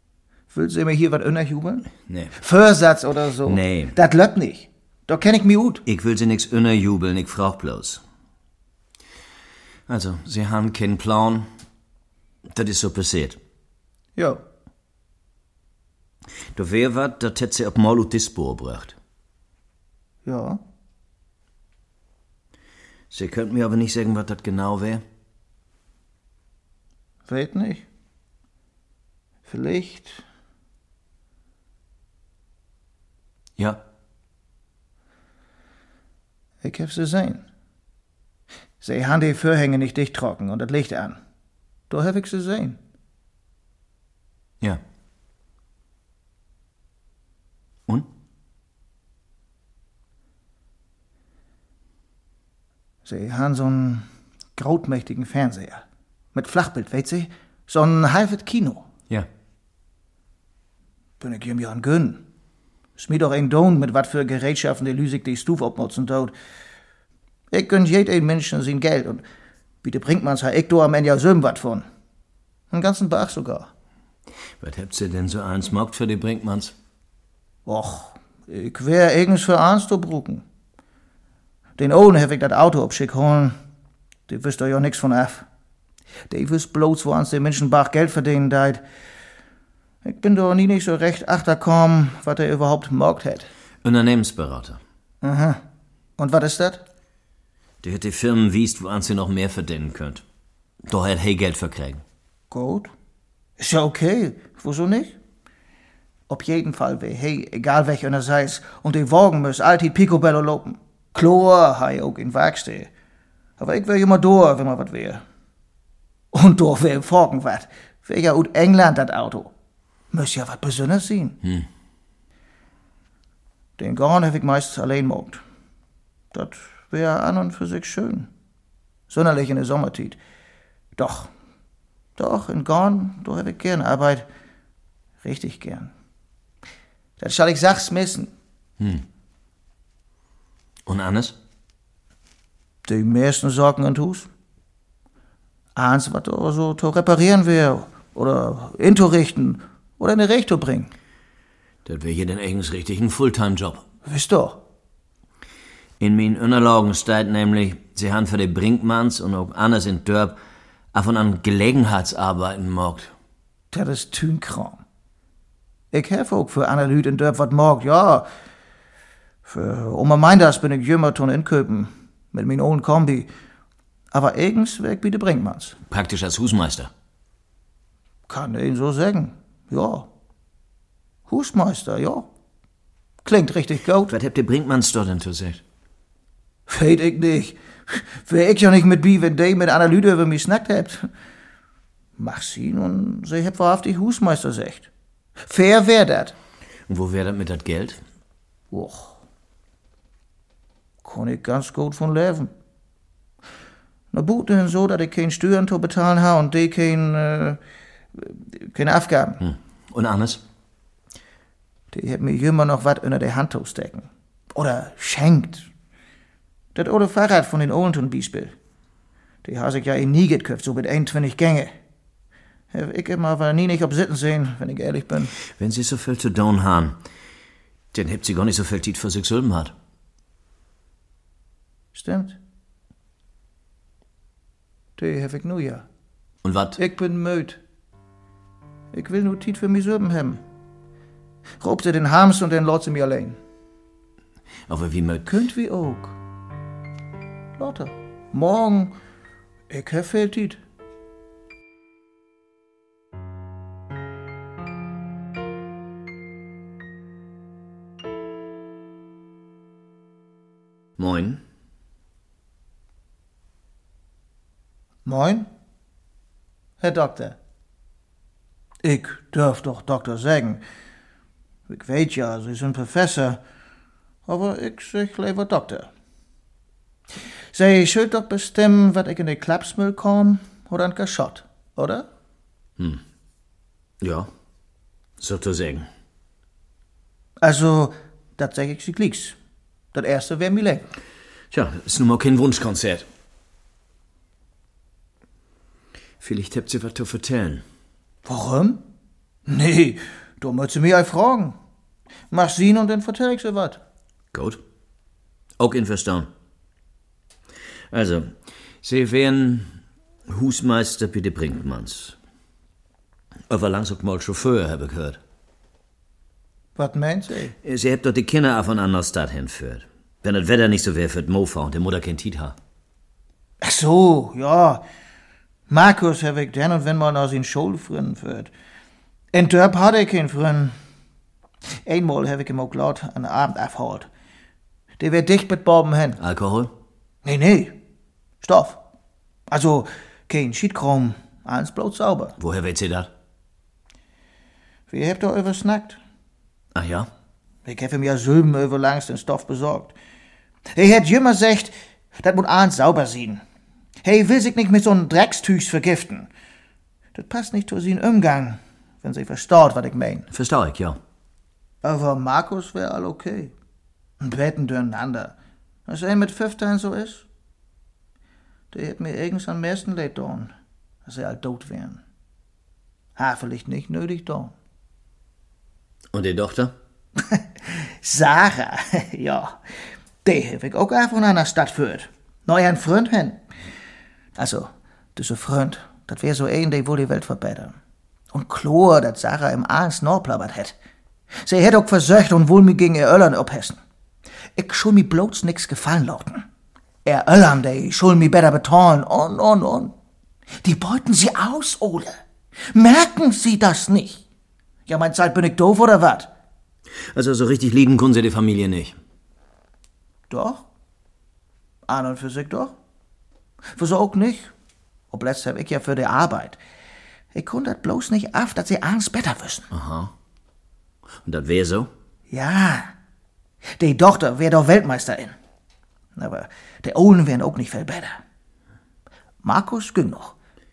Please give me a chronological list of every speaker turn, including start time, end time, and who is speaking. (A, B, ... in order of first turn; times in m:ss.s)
0:00.5-0:05.8 A
0:02.1-0:02.3 B
0:03.4-0:04.0 B
0:05.8-0:08.0 B
0:09.9-0:11.5 B
0:12.5-0:13.4 B
0:14.2-0:14.4 A
0:16.5-0:19.0 B
0:20.2-0:20.6 A
0:23.1-0:25.0 B
0:27.3-0:27.8 A
0:29.4-0:30.2 A
0:33.6-0:33.8 B
0:36.6-0:37.4 A
0:38.8-0:41.2 A
0:41.9-0:42.8 A
0:53.0-0:58.9 A
1:01.2-1:02.2 A
1:03.0-1:06.3 A
1:07.5-1:09.2 A
1:09.8-1:11.8 A
1:12.7-1:13.7 A
1:14.6-1:16.7 B
1:17.6-1:20.4 A
1:21.8-1:23.5 A
1:24.3-1:25.5 A
1:26.3-1:28.8 A
1:30.0-1:33.5 A
1:33.8-1:34.8 B
1:35.2-1:35.6 A
1:36.2-1:36.8 A
1:37.8-1:40.2 B
1:40.8-1:42.0 B
1:42.5-1:42.9 A
1:43.6-1:45.2 A
1:46.3-1:52.9 A
1:53.6-1:55.2 A
1:56.3-1:59.5 A
2:00.1-2:01.4 A
2:03.8-2:05.4 A
2:06.3-2:08.3 A
2:09.1-2:10.2 A
2:11.0-2:11.3 A
2:12.2-2:14.3 A
2:15.2-2:15.9 A
2:17.2-2:18.3 A
2:18.8-2:19.0 B
2:20.8-2:21.4 B
2:22.8-2:24.3 A
2:25.8-2:30.9 A
2:31.8-2:33.8 B
2:34.0-2:34.6 A
2:36.0-2:40.4 B
2:40.9-2:43.1 B
2:43.7-2:44.8 A
2:45.9-2:48.3 A
2:49.4-2:53.3 A
2:54.1-2:55.8 A
2:55.9-2:56.9 B
2:58.3-3:00.1 A
3:01.3-3:02.3 A
3:03.2-3:04.1 A
3:04.1-3:05.6 B
3:06.7-3:11.1 A
3:12.2-3:14.9 A
3:15.4-3:16.3 A
3:16.9-3:18.0 B
3:18.7-3:19.2 A
3:21.0-3:22.5 A
3:24.1-3:27.6 A
3:28.1-3:29.4 A
3:29.4-3:30.4 B
3:31.9-3:35.7 A
3:36.7-3:38.5 A
3:39.4-3:41.7 A
3:42.7-3:45.3 A
3:45.4-3:47.0 B
3:47.9-3:49.7 B
3:51.9-3:52.4 A
3:55.0-3:55.8 A
3:56.4-3:56.8 B
3:56.8-3:57.6 A
3:58.9-4:00.4 A
4:01.6-4:03.4 A
4:04.7-4:05.3 B
4:05.2-4:06.2 A
4:07.6-4:09.0 A
4:09.7-4:10.6 A
4:21.0-4:21.4 B
4:25.0-4:25.5 A
4:26.8-4:27.4 A
4:28.8-4:30.6 A
4:31.7-4:33.4 A
4:34.2-4:35.9 A
4:37.5-4:42.1 A
4:42.8-4:43.0 B
4:44.0-4:44.3 B
4:45.2-4:45.9 B
4:47.4-4:49.4 A
4:49.9-4:50.9 A
4:51.5-4:53.1 B
4:56.2-4:57.6 B
4:58.2-4:58.8 A
4:59.5-5:01.6 A
5:02.3-5:03.8 A
5:04.3-5:04.6 B
5:05.6-5:06.3 B
5:07.9-5:09.7 B
5:10.3-5:12.2 B
5:13.5-5:15.2 B
5:16.8-5:17.5 A
5:17.6-5:22.6 B
5:23.6-5:24.8 A
5:25.7-5:28.5 A
5:29.3-5:30.7 A
5:31.8-5:34.1 A
5:35.0-5:36.2 A
5:36.2-5:36.7 B
5:37.2-5:37.8 A
5:38.4-5:38.8 A
5:39.5-5:42.4 A
5:42.4-5:43.1 B
5:44.9-5:46.0 A
5:46.7-5:47.1 B
5:47.6-5:49.9 A
5:50.7-5:53.4 A
5:54.0-5:56.3 A
5:57.1-6:00.3 A
6:00.3-6:01.0 B
6:01.8-6:03.5 A
6:04.2-6:05.3 A
6:05.9-6:07.3 A
6:08.7-6:10.5 A
6:11.0-6:12.0 A
6:13.2-6:14.5 A
6:16.1-6:16.7 B
6:17.3-6:19.6 A
6:20.2-6:23.4 A
6:24.4-6:27.8 A
6:28.3-6:30.7 A
6:31.4-6:33.8 A
6:34.6-6:36.5 A
6:37.0-6:39.9 A
6:40.6-6:42.2 A
6:42.7-6:44.2 A
6:44.9-6:46.3 A
6:47.1-6:49.0 B
6:50.3-6:50.7 A
6:51.9-6:52.8 A
6:53.7-6:54.5 A
6:55.1-6:56.6 A
6:57.3-6:59.7 A
6:59.7-7:00.1 B
7:01.2-7:01.9 B
7:02.3-7:02.9 A
7:03.8-7:05.3 A
7:06.2-7:08.2 A
7:09.4-7:10.4 A